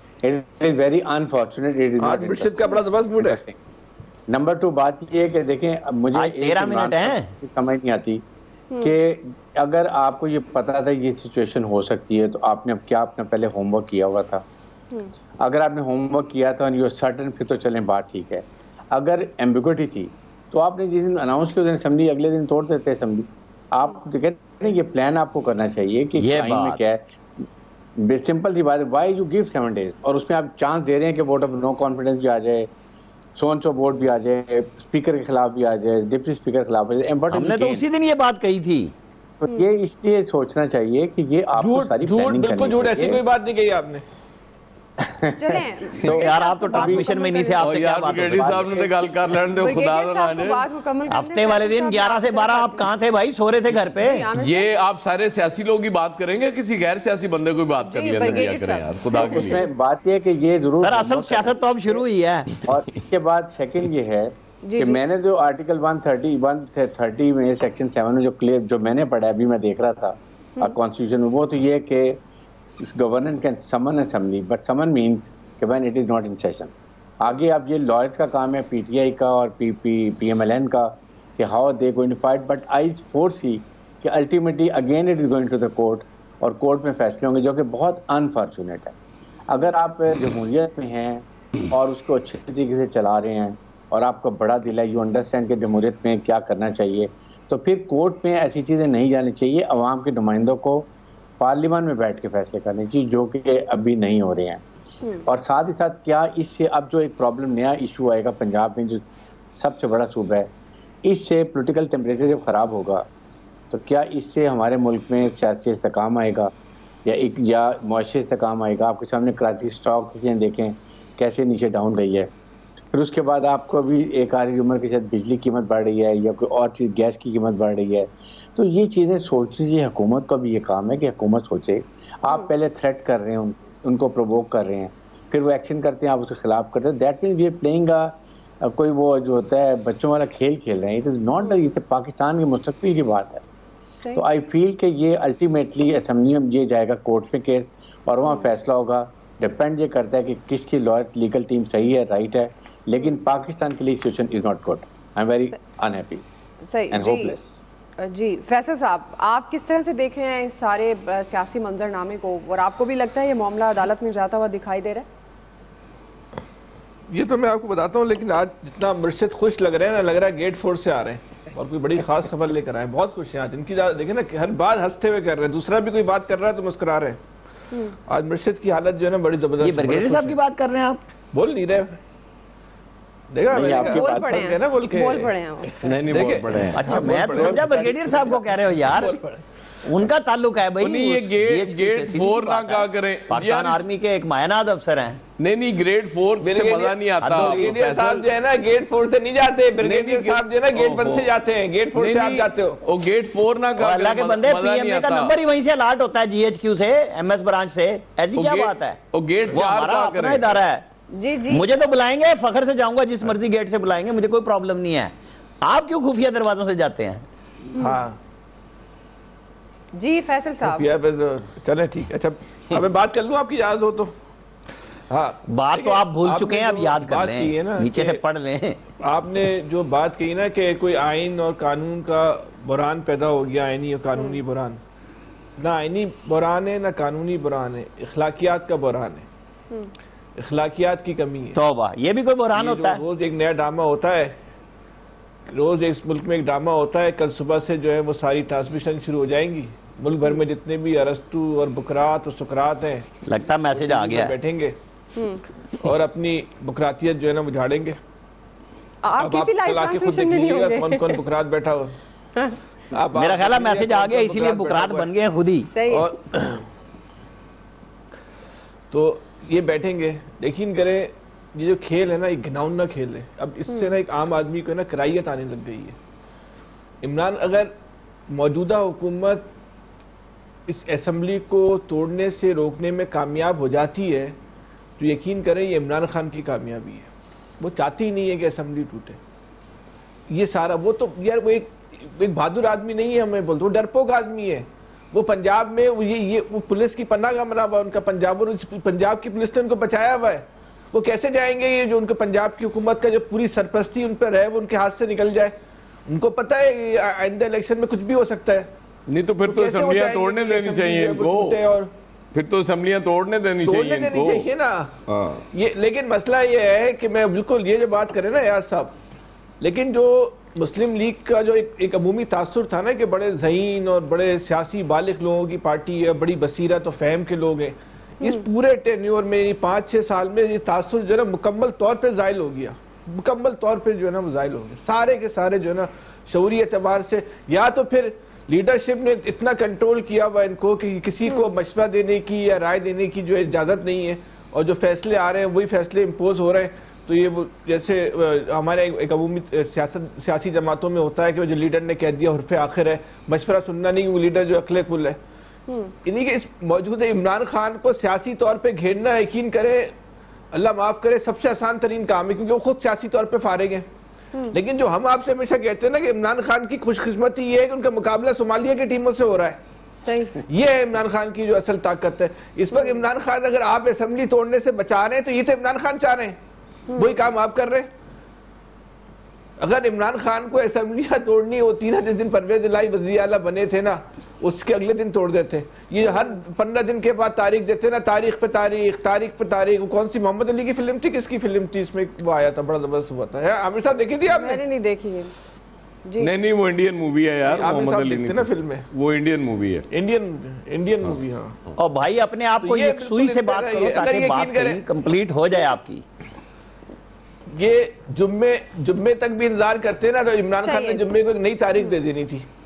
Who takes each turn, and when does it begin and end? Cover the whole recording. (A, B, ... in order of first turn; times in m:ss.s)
0:00.2-0:03.6 A
0:02.0-0:03.4 B
0:04.3-0:08.2 A
0:06.1-0:07.3 C
0:08.8-0:14.4 A
0:15.4-0:27.0 A
0:26.2-0:26.8 C
0:28.0-0:32.7 A
0:33.4-0:37.9 A
0:37.3-0:38.9 C
0:39.4-0:43.2 A
0:41.6-0:44.0 B
0:45.0-0:47.1 A
0:45.3-0:47.8 D
0:46.0-0:48.8 C
0:47.6-0:50.7 E
0:49.5-0:53.0 D
0:51.1-0:54.3 C
0:54.0-0:54.7 D
0:54.4-0:59.6 E
0:57.8-0:59.7 D
0:59.2-1:02.1 A
1:00.8-1:02.6 C
1:02.6-1:12.2 A
1:04.6-1:05.0 D
1:12.8-1:29.0 A
1:29.5-1:40.9 A
1:41.4-1:44.6 A
1:45.2-1:50.5 A
1:51.0-1:53.0 A
1:53.7-1:56.5 A
1:57.0-2:02.3 A
2:02.9-2:23.4 A
2:21.4-2:21.7 D
2:24.0-2:24.2 D
2:24.1-2:36.2 A
2:36.6-2:37.4 D
2:36.9-2:37.6 A
2:38.0-2:45.1 D
2:47.1-2:57.2 B
2:58.1-3:00.4 B
2:59.6-3:01.0 C
3:01.3-3:02.0 B
3:03.3-3:05.4 B
3:03.5-3:04.4 A
3:03.6-3:06.0 D
3:05.8-3:06.8 E
3:06.1-3:09.4 B
3:06.7-3:09.1 C
3:07.1-3:07.9 A
3:09.8-3:15.2 C
3:10.8-3:13.9 E
3:15.4-3:18.3 E
3:16.4-3:22.8 B
3:17.2-3:17.8 C
3:19.8-3:21.3 E
3:21.9-3:25.4 E
3:23.8-3:30.8 C
3:28.4-3:30.6 E
3:31.1-3:31.9 D
3:31.5-3:37.2 C
3:37.8-3:38.0 D
3:37.8-3:38.2 B
3:39.9-3:40.9 D
3:40.6-3:44.1 B
3:45.1-3:48.2 B
3:45.5-3:48.8 C
3:49.0-3:54.8 B
3:54.2-3:54.4 D
3:55.6-3:59.3 B
4:00.4-4:01.6 B
4:01.6-4:03.0 C
4:02.5-4:04.4 B
4:05.5-4:13.1 B
4:13.2-4:14.4 C
4:13.7-4:14.8 B
4:15.2-4:15.4 D
4:15.8-4:18.0 B
4:19.0-4:21.2 D
4:19.2-4:22.0 B
4:22.9-4:25.1 B
4:23.1-4:25.7 C
4:25.7-4:26.1 D
4:25.9-4:26.7 B
4:28.9-4:36.0 B
4:33.7-4:34.0 D
4:37.0-4:37.7 B
4:38.3-4:39.5 B
4:40.7-4:44.4 B
4:45.0-4:49.2 B
4:50.3-5:05.6 B
5:06.1-5:08.7 B
5:09.1-5:11.6 E
5:09.4-5:11.9 B
5:12.3-5:14.5 E
5:13.6-5:14.9 B
5:15.1-5:15.4 E
5:15.5-5:19.0 B
5:19.6-5:55.2 B
5:55.7-5:55.9 D
5:56.0-5:59.9 B
6:00.5-6:03.9 B
6:04.5-6:09.6 B
6:10.0-6:10.4 D
6:10.4-6:16.4 B
6:12.7-6:13.0 D
6:16.9-6:17.3 D
6:17.0-6:17.9 B
6:19.6-6:34.6 B
6:26.0-6:26.4 D
6:34.3-6:35.3 D
6:36.0-6:36.3 D
6:36.2-6:39.8 E
6:37.4-6:38.8 B
6:39.9-6:41.6 B
6:41.8-6:46.0 C
6:42.6-6:44.8 B
6:47.5-6:52.5 B
6:50.6-6:51.1 D